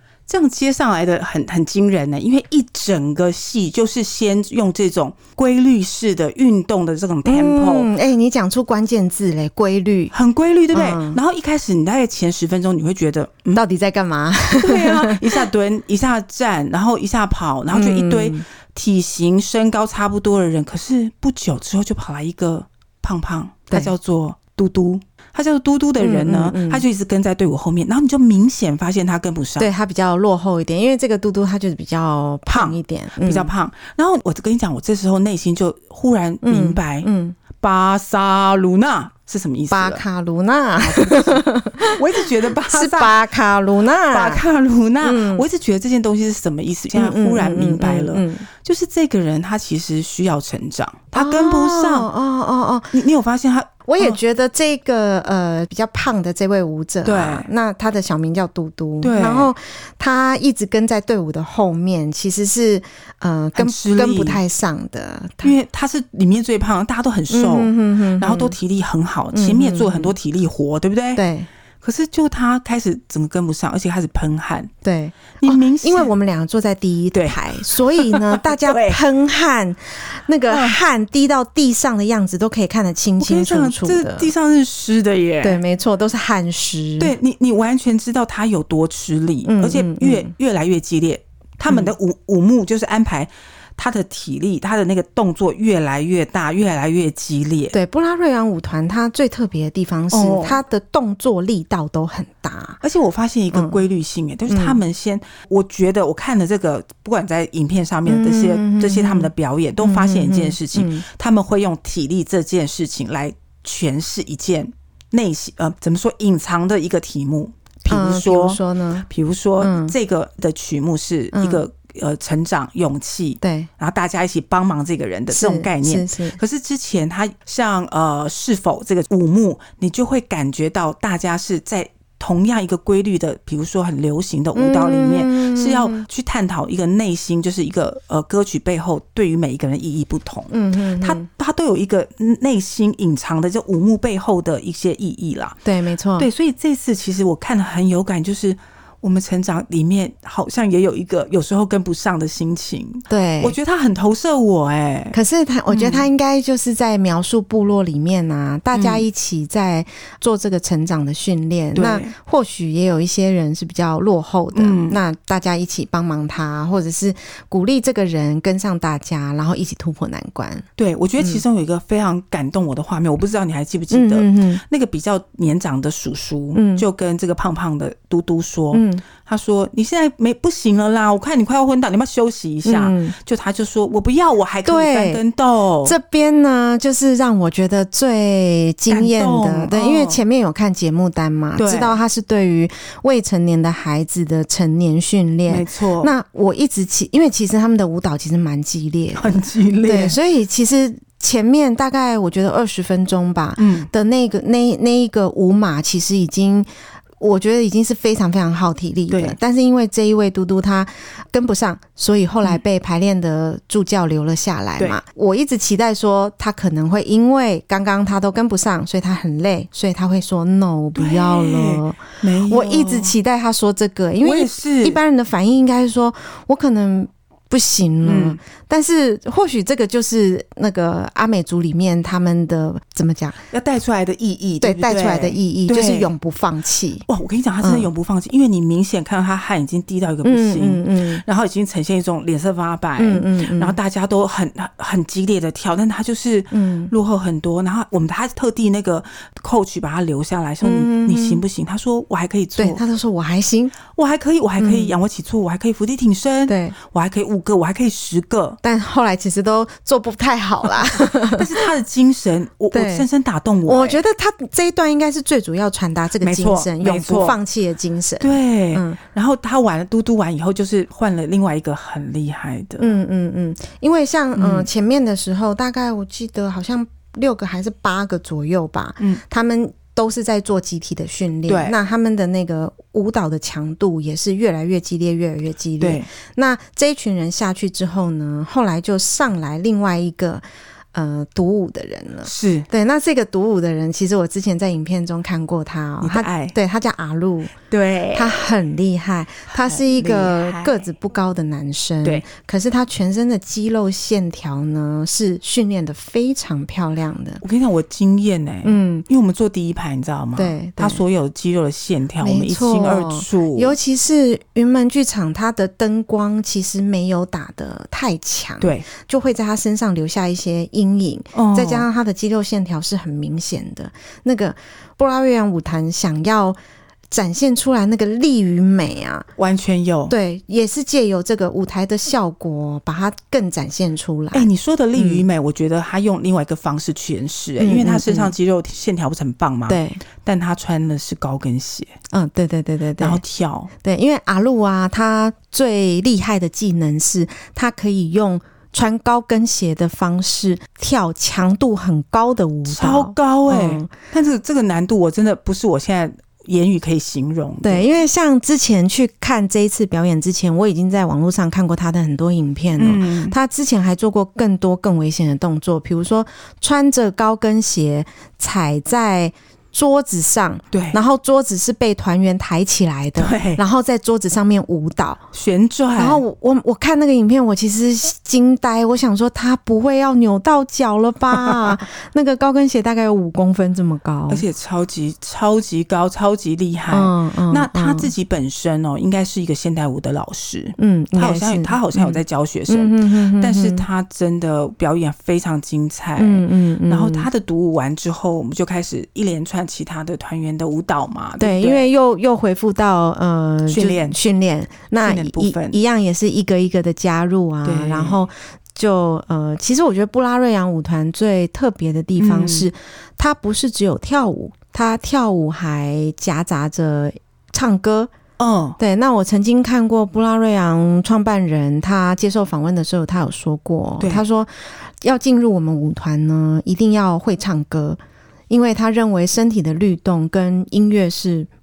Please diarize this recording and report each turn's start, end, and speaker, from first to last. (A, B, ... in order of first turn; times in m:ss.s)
0:00.3-0:07.9 A
0:07.2-0:10.1 B
0:10.1-0:13.6 A
0:10.7-0:11.2 B
0:13.5-0:15.4 B
0:14.6-0:29.7 A
0:17.7-0:18.4 B
0:26.0-0:26.8 B
0:29.6-0:33.5 B
0:32.5-0:40.0 A
0:36.4-0:37.4 B
0:39.7-0:44.4 B
0:40.8-0:43.1 A
0:44.1-0:52.1 A
0:45.0-0:45.4 B
0:46.9-0:48.5 B
0:51.1-0:53.0 B
0:52.9-0:54.2 A
0:53.8-1:05.5 B
0:57.0-0:57.5 A
0:59.0-0:59.5 A
1:03.6-1:04.4 A
1:05.4-1:11.2 A
1:07.3-1:08.6 B
1:09.3-1:10.1 B
1:11.2-1:11.5 B
1:11.8-1:14.7 A
1:14.8-1:24.3 B
1:15.4-1:16.1 A
1:17.1-1:19.0 A
1:20.5-1:20.8 A
1:23.2-1:25.6 A
1:25.4-1:27.1 B
1:27.0-1:37.7 A
1:29.4-1:30.3 B
1:37.7-1:42.8 B
1:40.1-1:40.6 A
1:42.8-2:25.6 A
1:43.5-1:43.8 B
1:44.5-1:44.8 B
1:48.0-1:51.0 B
1:57.9-1:59.1 B
1:59.6-1:59.9 B
2:01.3-2:01.6 B
2:03.4-2:03.7 B
2:05.3-2:06.4 B
2:14.5-2:16.0 B
2:20.5-2:21.3 B
2:25.6-2:26.3 B
2:26.2-2:35.2 A
2:33.1-2:33.6 B
2:35.1-2:50.7 B
2:35.7-2:36.1 A
2:38.7-2:39.0 A
2:41.7-2:42.1 A
2:44.5-2:45.0 A
2:50.8-3:05.9 A
2:53.9-2:54.6 B
2:56.5-2:56.8 B
2:58.7-2:59.0 B
3:02.6-3:03.2 B
3:04.6-3:05.2 B
3:05.8-3:26.7 B
3:08.9-3:10.2 A
3:11.6-3:12.0 A
3:15.5-3:16.1 A
3:19.2-3:20.2 A
3:23.6-3:23.9 A
3:27.2-3:53.4 B
3:29.1-3:29.4 A
3:41.0-3:43.1 A
3:44.2-3:45.0 A
3:48.0-3:48.4 A
3:53.5-3:56.1 A
3:54.6-3:57.0 B
3:57.1-4:12.8 A
3:57.6-3:57.9 B
4:00.2-4:01.2 B
4:03.0-4:03.8 B
4:06.5-4:06.9 B
4:10.6-4:11.4 B
4:12.6-4:13.7 B
4:13.9-4:18.6 A
4:14.6-4:14.9 B
4:16.5-4:16.8 B
4:18.6-4:21.7 B
4:21.0-4:24.0 A
4:22.7-4:23.0 B
4:23.6-4:29.0 B
4:26.2-4:27.4 A
4:28.2-4:32.9 A
4:32.8-4:57.5 B
4:34.3-4:34.7 A
4:41.5-4:41.7 A
4:45.8-4:46.1 A
4:52.2-4:52.7 A
4:56.0-4:56.5 A
4:57.7-4:58.4 A
4:58.1-5:07.4 B
4:59.5-5:00.8 A
5:07.4-5:13.8 A
5:08.6-5:09.0 B
5:10.4-5:11.0 B
5:12.2-5:26.6 B
5:18.6-5:18.8 A
5:21.3-5:21.9 A
5:27.1-5:29.3 B
5:29.4-5:30.1 A
5:30.1-5:35.2 B
5:34.3-5:41.9 A
5:37.6-5:38.3 B
5:39.7-5:40.0 B
5:42.1-5:43.2 B
5:43.0-5:43.7 A
5:43.8-5:53.9 B
5:52.7-5:57.9 A
5:57.6-6:15.2 B
6:02.8-6:03.3 A
6:10.7-6:11.0 A
6:13.2-6:13.6 A
6:15.3-6:16.2 A
6:16.0-6:24.4 B
6:21.3-6:21.7 A
6:24.3-6:41.9 A
6:26.9-6:28.1 B
6:30.8-6:33.8 B
6:36.2-6:37.3 B
6:41.4-6:58.1 B
6:43.7-6:44.2 A
6:45.0-6:45.8 A
6:47.6-6:48.2 A
6:52.2-6:52.7 A
6:58.4-6:58.8 A
6:58.8-7:08.0 B
7:04.0-7:04.2 A
7:08.5-7:11.5 B